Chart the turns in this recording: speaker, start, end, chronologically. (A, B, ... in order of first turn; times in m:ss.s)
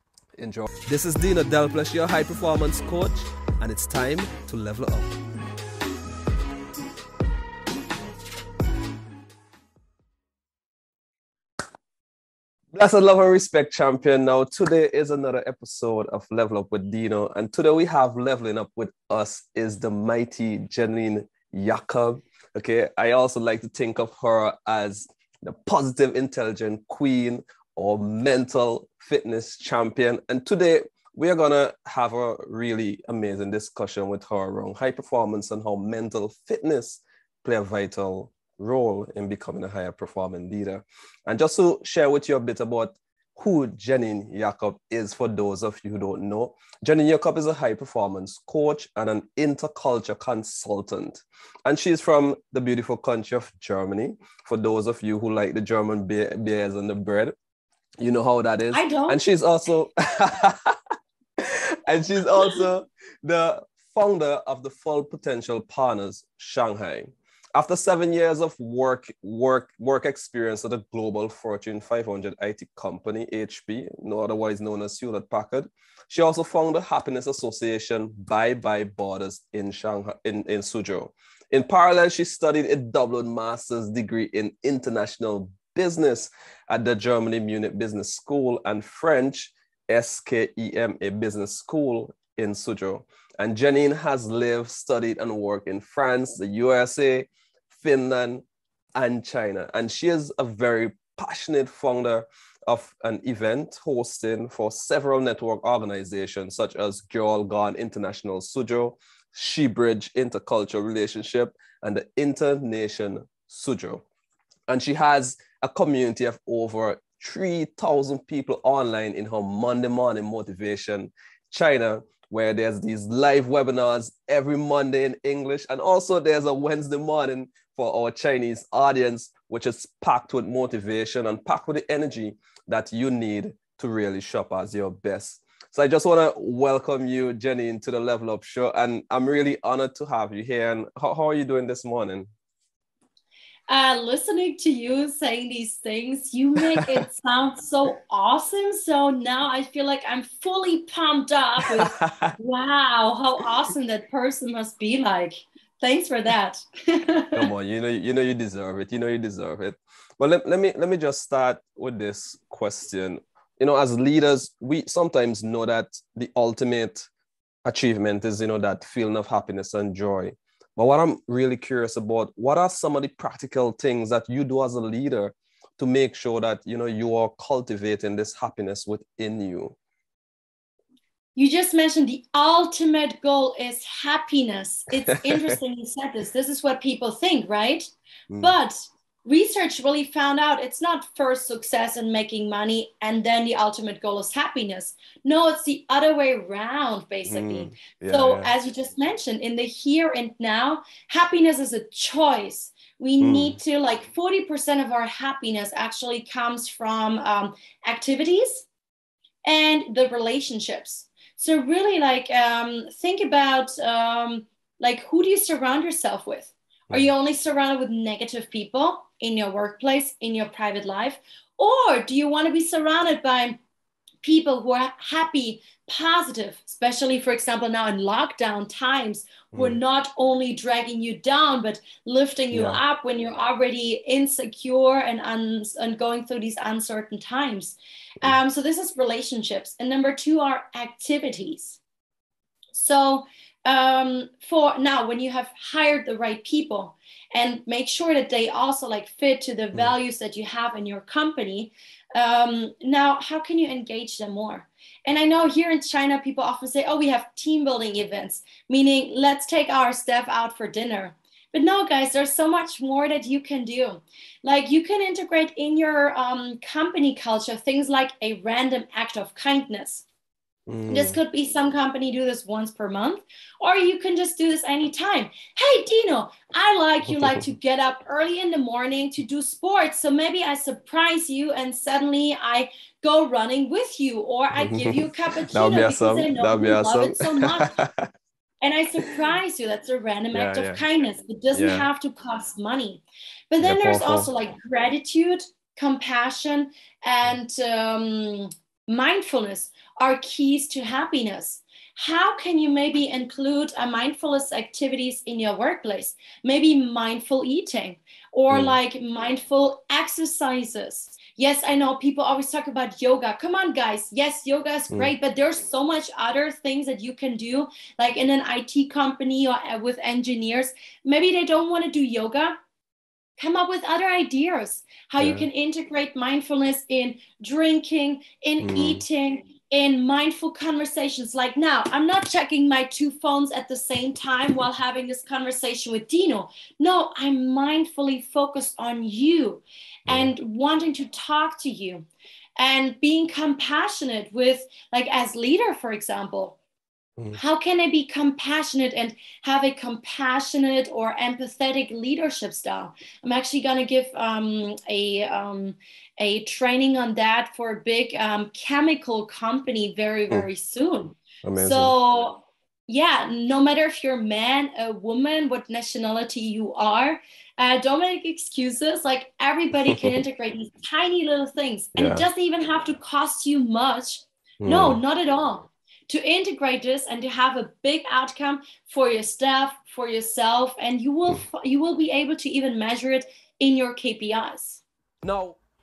0:00.4-0:05.2 A
0:12.7-0:57.4 A
0:58.0-1:00.8 A
0:58.7-0:59.2 B
1:01.4-1:38.4 A
1:39.0-1:54.0 A
1:54.7-2:22.3 A
2:23.7-2:37.5 B
2:32.0-2:32.3 A
2:37.4-2:47.1 A
2:47.6-2:59.8 A
3:01.4-3:28.7 B
3:08.3-3:08.6 A
3:17.3-3:18.5 A
3:23.2-3:23.6 A
3:29.4-3:43.6 B
3:44.2-4:01.8 B
3:49.5-3:49.8 A
3:52.5-3:52.8 A
4:02.7-4:30.1 B
4:30.7-4:31.2 A
4:30.9-4:47.7 B
4:37.1-4:37.4 A
4:44.6-4:48.1 A
4:48.6-5:22.5 B
4:50.3-4:50.8 A
4:51.5-4:51.9 A
4:53.6-4:54.3 A
5:08.5-5:08.8 A
5:23.4-5:42.1 B
5:25.2-5:25.5 A
5:28.6-5:29.0 A
5:42.6-5:46.6 B
5:47.4-6:24.8 B
6:01.4-6:01.9 A
6:09.7-6:10.2 A
6:12.0-6:12.3 A
6:14.6-6:15.0 A
6:25.2-6:25.6 A